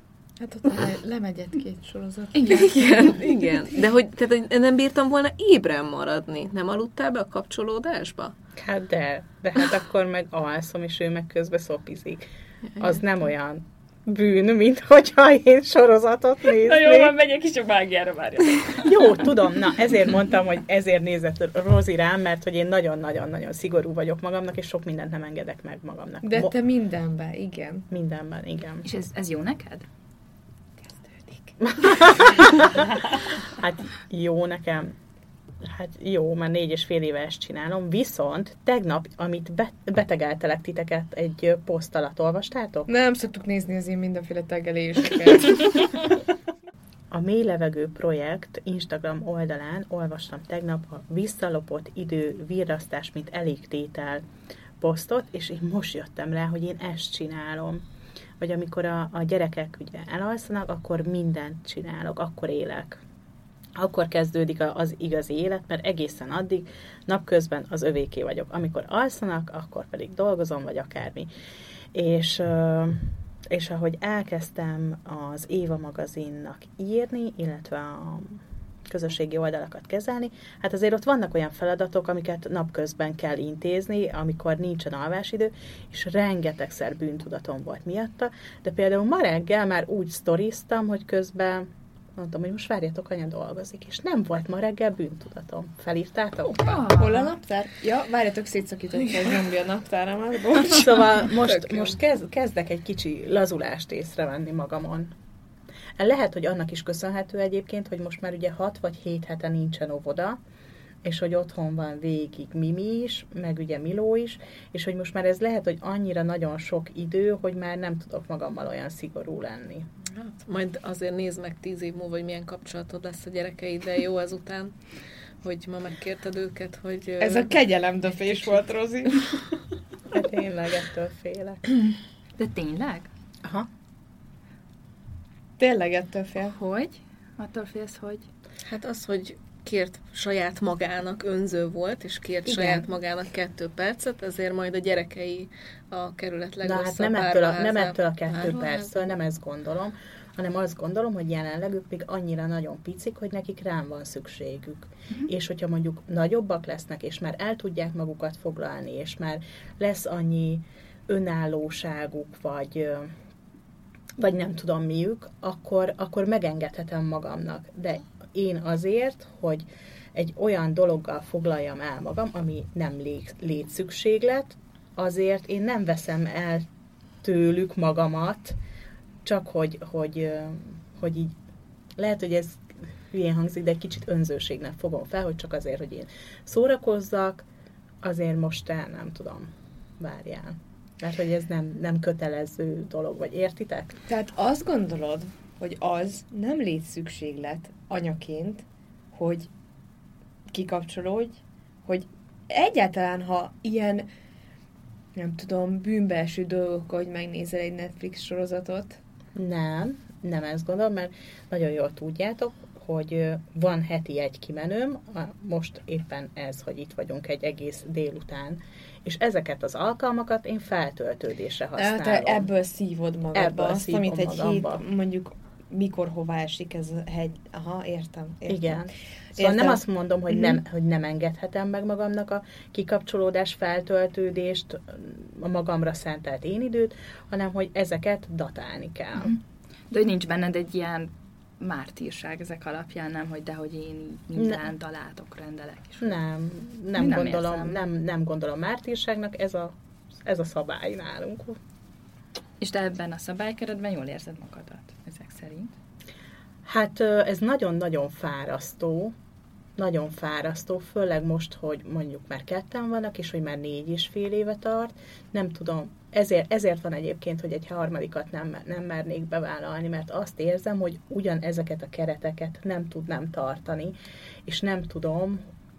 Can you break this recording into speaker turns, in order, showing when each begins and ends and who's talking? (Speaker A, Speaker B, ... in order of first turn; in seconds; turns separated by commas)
Speaker A: 0.4-3.2, Speaker B: 2.4-2.7, Speaker C: 2.6-8.3, Speaker D: 8.6-12.2, Speaker D: 12.8-17.1, Speaker E: 16.6-19.1, Speaker D: 18.8-26.6, Speaker A: 26.2-27.9, Speaker D: 27.9-28.9, Speaker B: 28.8-29.9, Speaker B: 31.0-31.6, Speaker D: 31.6-32.9, Speaker D: 33.6-34.9, Speaker D: 35.6-42.9, Speaker A: 42.9-46.2, Speaker D: 47.1-54.3, Speaker D: 54.8-57.8, Speaker D: 58.4-63.0, Speaker D: 63.8-71.3, Speaker D: 71.9-96.8, Speaker B: 96.6-97.4, Speaker A: 96.7-101.3, Speaker D: 100.7-105.1, Speaker D: 106.0-110.4, Speaker D: 111.0-119.9, Speaker C: 120.1-124.8, Speaker C: 125.4-127.6, Speaker A: 127.2-129.3, Speaker D: 130.1-131.7, Speaker B: 132.4-133.1, Speaker A: 135.6-136.6, Speaker B: 136.5-138.3, Speaker C: 138.7-149.1, Speaker D: 142.5-142.9, Speaker D: 146.6-163.1, Speaker D: 164.2-176.7, Speaker D: 177.2-178.6, Speaker D: 179.2-181.3, Speaker D: 182.0-187.4, Speaker D: 188.0-194.0, Speaker A: 194.1-199.5, Speaker A: 200.5-204.1, Speaker A: 205.2-209.0, Speaker D: 209.4-222.5, Speaker A: 221.8-230.6, Speaker D: 223.3-224.8, Speaker D: 228.5-239.3, Speaker B: 239.9-246.2, Speaker D: 246.0-251.6, Speaker B: 247.0-247.8, Speaker B: 252.6-255.7, Speaker D: 256.6-259.1, Speaker D: 259.8-273.9, Speaker D: 274.5-275.4